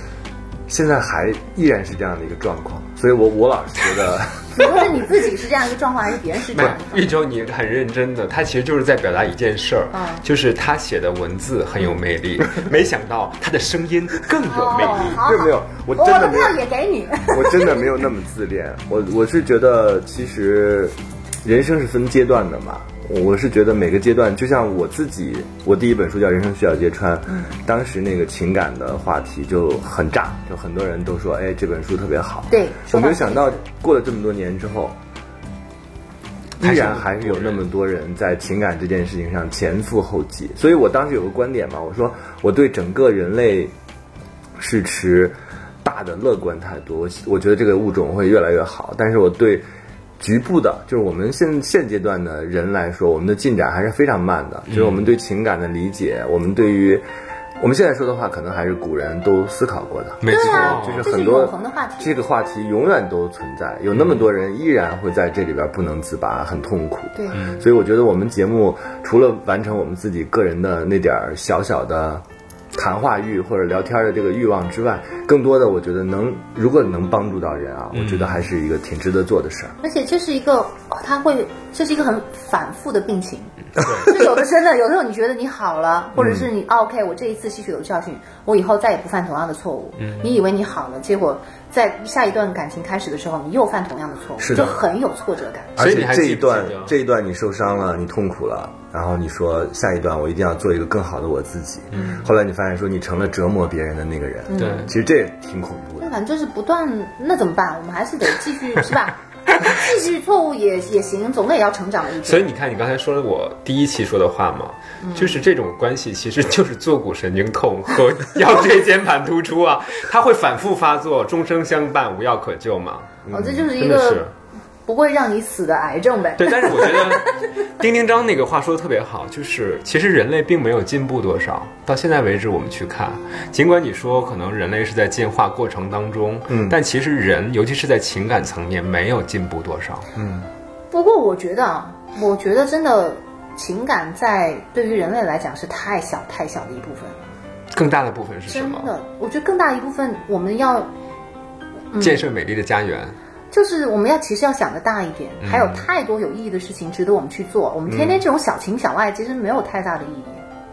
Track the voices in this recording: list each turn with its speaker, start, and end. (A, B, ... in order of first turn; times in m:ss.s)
0:00.7-0:05.0 A
0:04.6-0:07.1 B
0:06.5-0:15.2 C
0:09.9-0:10.2 B
0:14.4-0:17.9 B
0:15.0-0:16.6 A
0:17.3-0:35.0 A
0:32.5-0:33.6 B
0:36.6-0:37.6 C
0:36.6-0:43.7 A
0:44.6-0:49.7 A
0:50.2-0:57.1 A
0:54.7-0:55.0 C
0:57.6-1:12.2 A
1:00.2-1:01.1 C
1:00.3-1:02.1 B
1:07.2-1:07.4 B
1:12.8-1:19.8 A
1:18.0-1:18.4 C
1:19.8-1:35.8 B
1:23.8-1:24.1 C
1:26.2-1:26.5 A
1:34.4-1:34.8 A
1:35.8-1:46.1 A
1:35.8-1:36.9 C
1:41.9-1:42.2 C
1:44.5-1:44.9 B
1:44.6-1:44.9 C
1:46.0-1:52.5 B
1:52.2-2:03.2 C
1:55.0-1:55.4 B
2:03.2-2:03.7 A
2:03.3-2:04.2 B
2:03.7-2:04.3 C
2:04.9-2:07.2 B
2:06.4-2:20.1 C
2:16.5-2:16.8 A
2:20.2-2:20.5 A
2:20.9-2:27.3 B
2:27.7-2:28.9 C
2:28.5-2:30.9 B
2:31.9-2:32.2 B
2:32.0-2:33.2 C
2:33.5-2:40.4 B
2:35.4-2:35.9 C
2:37.9-2:38.2 A